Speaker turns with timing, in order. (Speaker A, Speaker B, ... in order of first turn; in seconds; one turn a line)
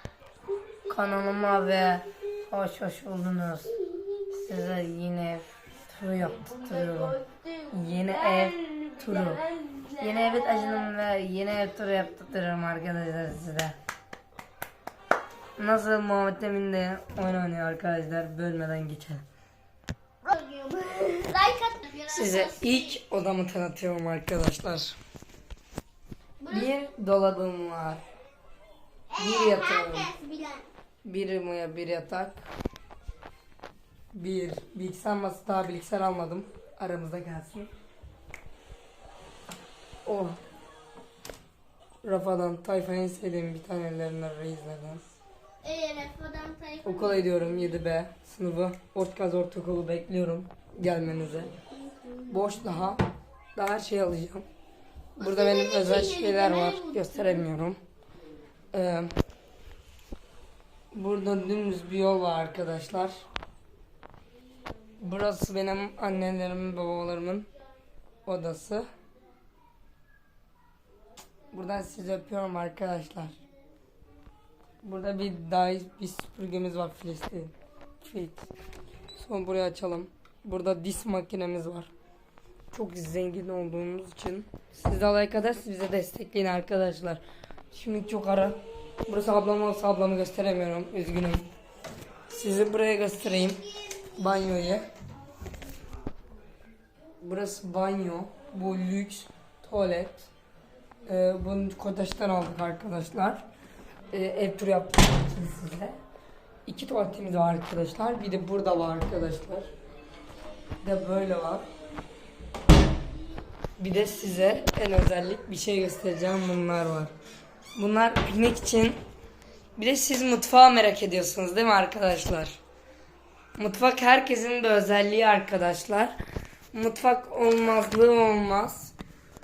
Speaker A: 0.4-2.0
Speaker B: 0.9-3.8
Speaker A: 3.8-4.5
Speaker B: 4.3-7.2
Speaker A: 6.2-10.9
Speaker B: 7.7-9.4
Speaker B: 10.0-13.8
Speaker B: 15.6-19.2
Speaker A: 20.2-23.0
Speaker B: 22.1-25.0
Speaker A: 26.4-26.7
Speaker B: 26.5-28.0
Speaker A: 29.1-30.7
Speaker B: 29.2-30.1
Speaker B: 31.0-32.4
Speaker B: 34.1-37.7
Speaker B: 40.0-40.4
Speaker B: 42.0-45.1
Speaker A: 45.6-47.8
Speaker B: 46.8-51.5
Speaker A: 51.7-52.8
Speaker B: 52.3-54.5
Speaker B: 55.2-57.8
Speaker A: 55.2-57.5
Speaker B: 58.7-59.1
Speaker B: 60.9-63.2
Speaker B: 65.0-67.5
Speaker B: 68.3-68.9
Speaker B: 71.5-73.4
Speaker B: 74.8-78.5
Speaker B: 79.2-81.9
Speaker B: 82.7-91.5
Speaker B: 92.3-94.9
Speaker B: 97.2-100.3
Speaker B: 101.0-103.4
Speaker B: 104.1-106.0
Speaker B: 106.7-109.7
Speaker B: 110.8-111.7
Speaker B: 113.8-117.1
Speaker B: 117.8-119.0
Speaker B: 119.8-122.6
Speaker B: 123.6-126.2
Speaker B: 126.7-128.9